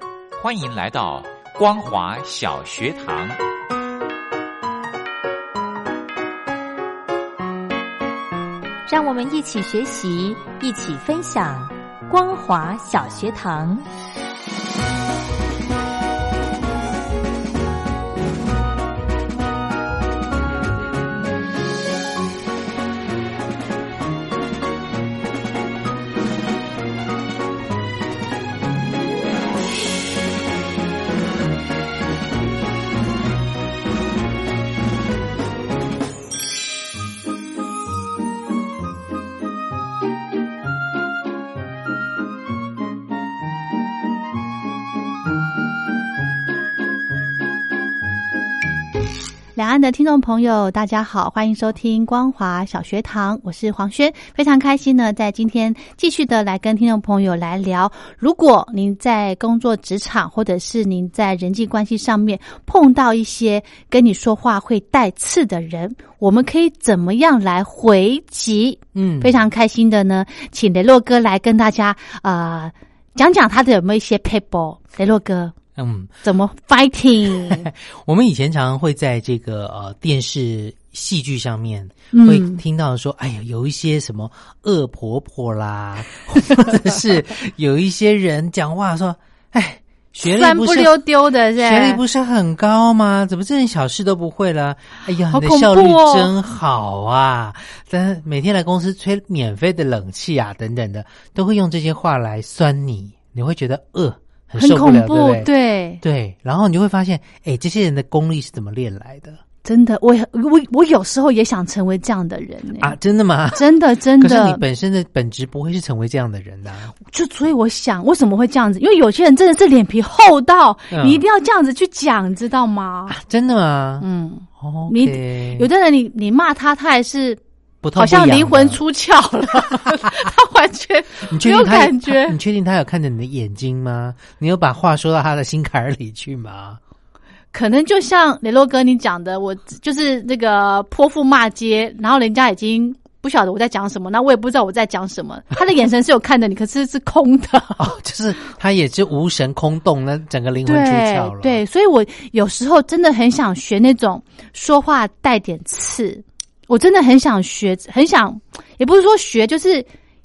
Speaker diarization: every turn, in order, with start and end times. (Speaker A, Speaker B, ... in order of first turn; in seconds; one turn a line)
Speaker A: 0.3-3.4
Speaker B: 8.9-13.9
Speaker C: 49.5-75.5
Speaker D: 68.9-69.4
Speaker D: 75.8-76.2
Speaker C: 76.2-77.7
Speaker D: 77.3-105.5
Speaker C: 82.1-82.6
Speaker C: 90.2-92.0
Speaker C: 95.3-96.3
Speaker C: 104.6-106.0
Speaker D: 106.0-109.4
Speaker C: 109.6-113.0
Speaker D: 112.8-116.9
Speaker C: 113.5-114.6
Speaker C: 117.0-123.2
Speaker D: 120.9-121.2
Speaker D: 123.1-124.1
Speaker C: 124.0-127.4
Speaker D: 124.6-125.7
Speaker D: 127.8-128.8
Speaker C: 128.0-132.4
Speaker D: 131.3-136.8
Speaker C: 137.5-147.9
Speaker D: 147.8-151.6
Speaker C: 150.7-159.9